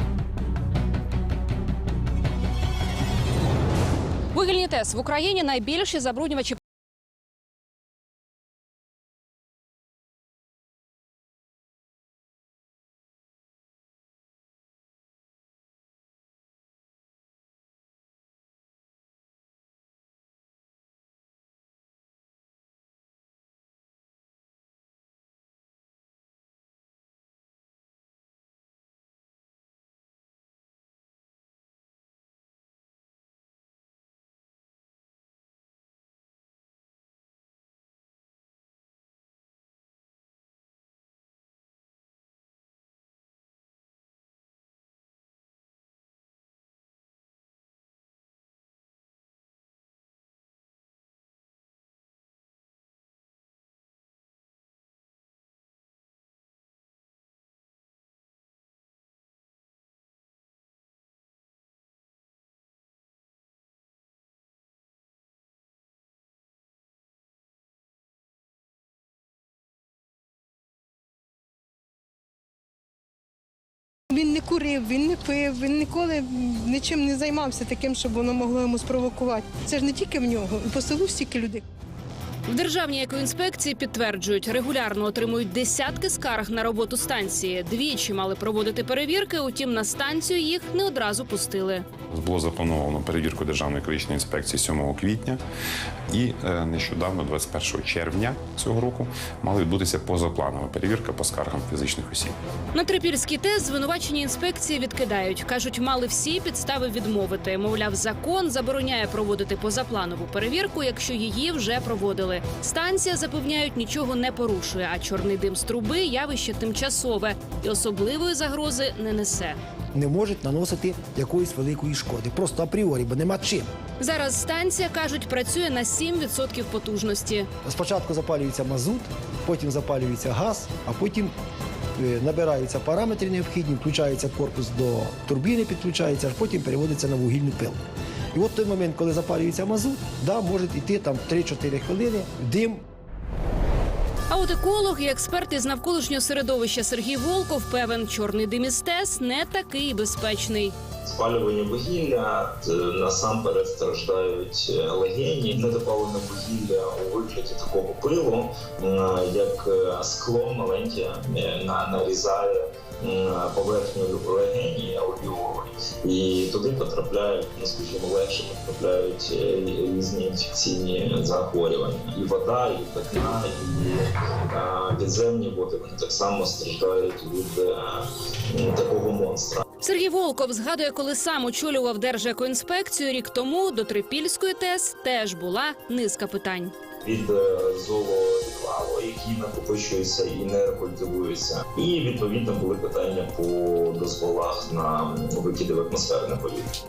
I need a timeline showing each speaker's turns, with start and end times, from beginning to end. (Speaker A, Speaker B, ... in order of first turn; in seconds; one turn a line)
Speaker A: 4.3-6.6
Speaker B: 74.1-81.6
Speaker A: 82.5-91.8
Speaker C: 92.1-95.4
Speaker C: 96.1-102.3
Speaker A: 102.7-119.6
Speaker D: 119.9-123.7
Speaker A: 124.0-127.5
Speaker D: 127.6-131.3
Speaker D: 132.0-137.8
Speaker D: 138.3-142.8
Speaker A: 144.3-150.7
Speaker E: 151.1-179.6
Speaker A: 179.8-186.7
Speaker E: 187.0-196.8